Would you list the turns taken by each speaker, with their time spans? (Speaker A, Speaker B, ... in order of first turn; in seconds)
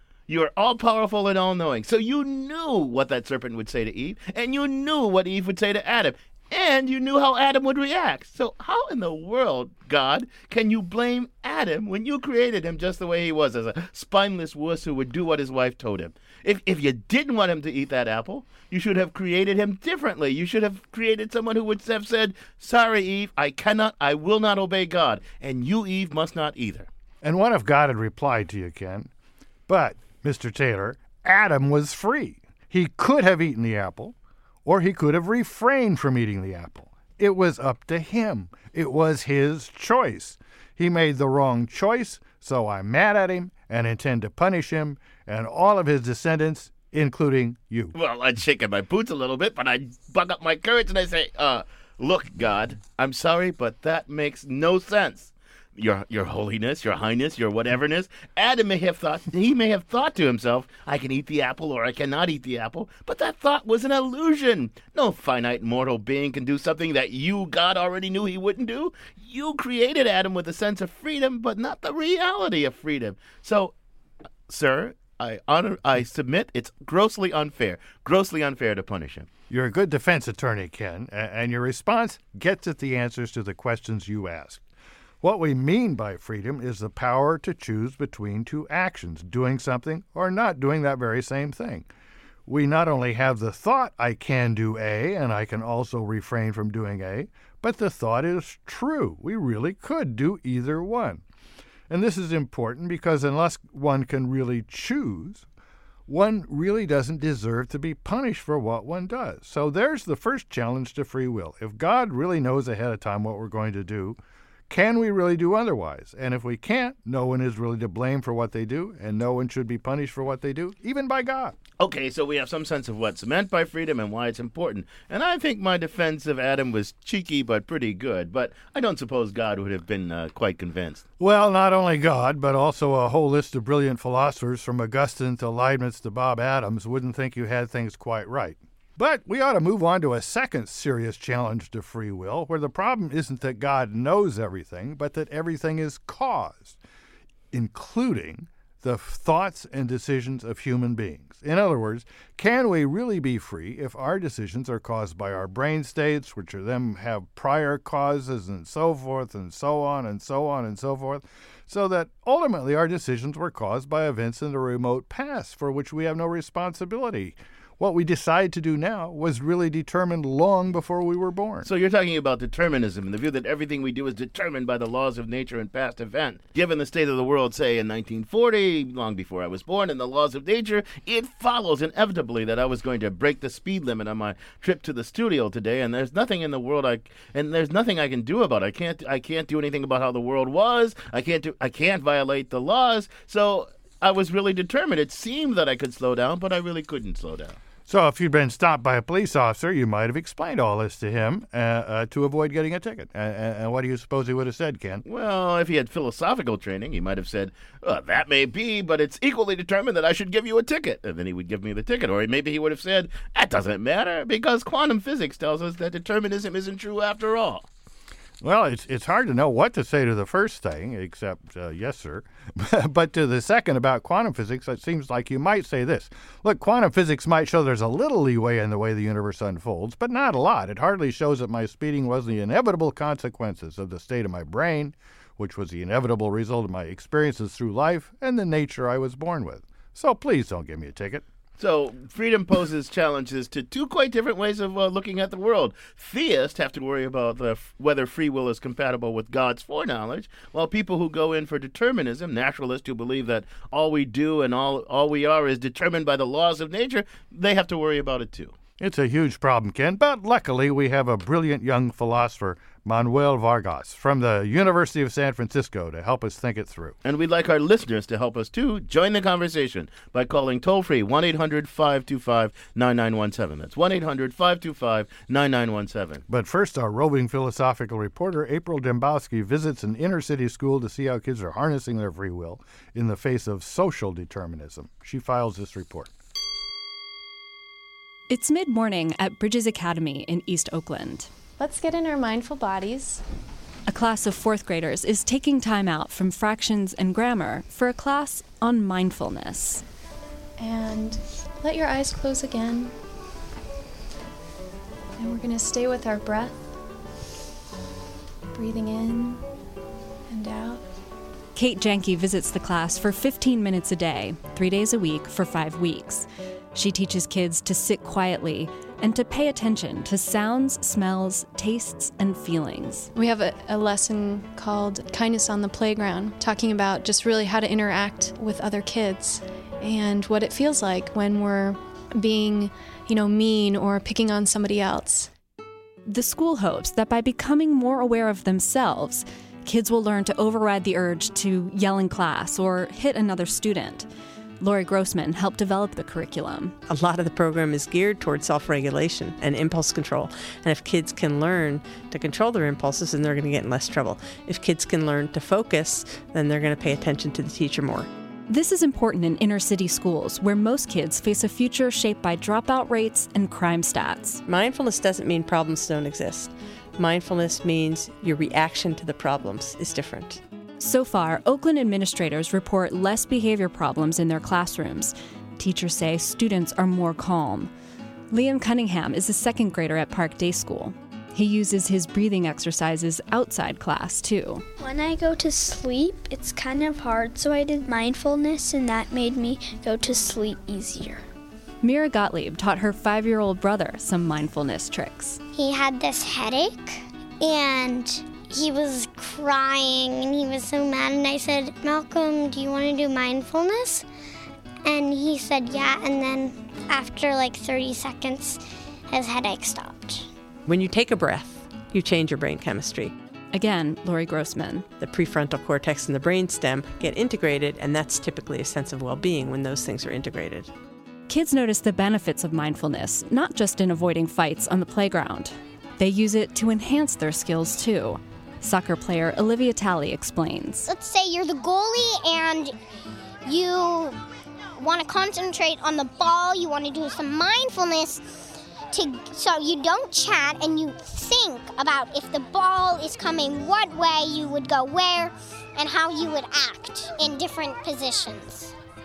Speaker A: 0.3-26.9, 47.9-73.7, 74.5-79.3, 121.8-131.0, 171.6-197.6, 205.0-217.7, 241.6-258.6, 267.0-276.2
Speaker B: 27.2-29.1, 29.7-47.9, 79.5-84.6, 85.2-91.9, 92.5-101.2, 101.9-105.5, 106.1-121.6, 131.2-146.8, 147.5-171.7, 197.9-205.0, 218.4-241.2, 258.8-266.9, 276.3-286.1
Speaker C: 288.3-291.3, 293.9-299.8, 311.5-323.1, 336.1-344.1, 344.6-346.8, 358.5-364.4, 370.8-377.7, 378.3-384.6, 391.8-395.4, 413.5-414.9, 421.3-430.9
Speaker D: 291.6-293.2, 300.6-302.9, 305.2-306.6, 308.5-309.4, 310.3-310.8, 323.1-335.3
Speaker E: 346.9-358.1, 364.4-370.4, 410.6-413.1, 415.0-420.7
Speaker F: 384.8-391.2
Speaker G: 395.5-404.0, 404.8-410.3, 430.9-432.7, 433.4-434.2, 434.8-448.7